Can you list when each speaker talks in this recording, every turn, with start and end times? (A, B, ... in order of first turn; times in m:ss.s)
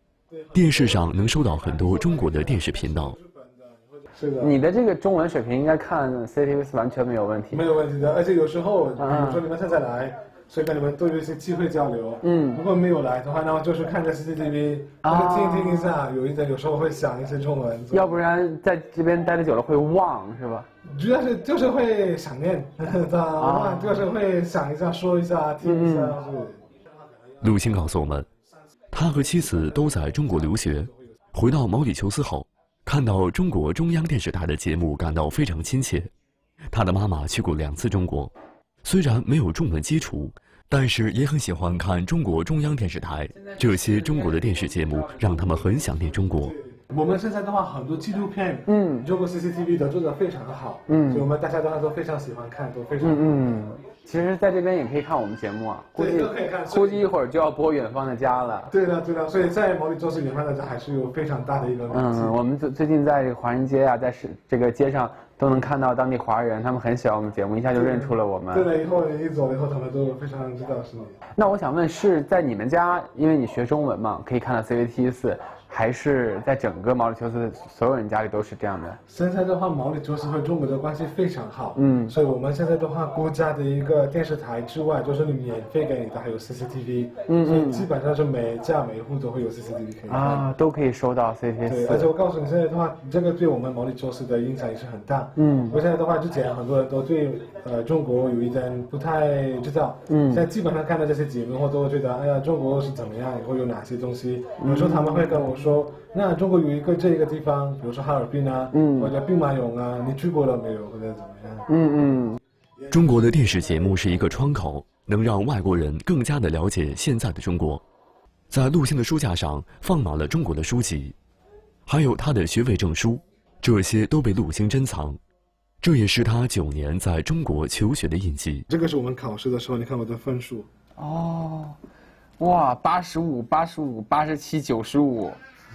0:00.3-0:04.6 A
0:00.5-0:03.2 B
0:04.4-0:07.6 C
0:07.5-0:18.2 A
0:09.0-0:09.4 C
0:12.2-0:12.6 C
0:15.0-0:16.0 C
0:17.9-0:20.7 C
0:20.8-0:26.8 A
0:23.4-0:24.0 C
0:25.6-0:26.2 C
0:27.4-0:28.3 B
0:28.9-0:36.1 B
0:36.7-0:38.3 B
0:38.8-0:46.5 B
0:43.4-0:45.4 C
0:46.4-0:53.6 A
0:48.7-0:49.1 C
0:50.9-0:51.2 C
0:53.0-0:58.7 C
0:55.9-0:57.1 A
0:58.7-1:02.3 A
1:01.9-1:08.7 C
1:07.7-1:11.2 A
1:11.4-1:19.0 C
1:19.1-1:30.5 A
1:21.8-1:22.1 C
1:27.3-1:27.9 C
1:30.1-1:32.1 C
1:31.6-1:51.7 A
1:35.4-1:35.8 C
1:40.1-1:40.4 C
1:44.6-1:45.4 C
1:48.7-1:49.1 C
1:51.7-1:52.4 C
1:52.8-1:53.8 A
1:52.9-1:57.8 B
1:58.5-2:01.2 B
2:01.8-2:05.2 B
2:05.8-2:08.7 B
2:08.7-2:10.7 A
2:11.0-2:11.8 C
2:12.4-2:15.4 C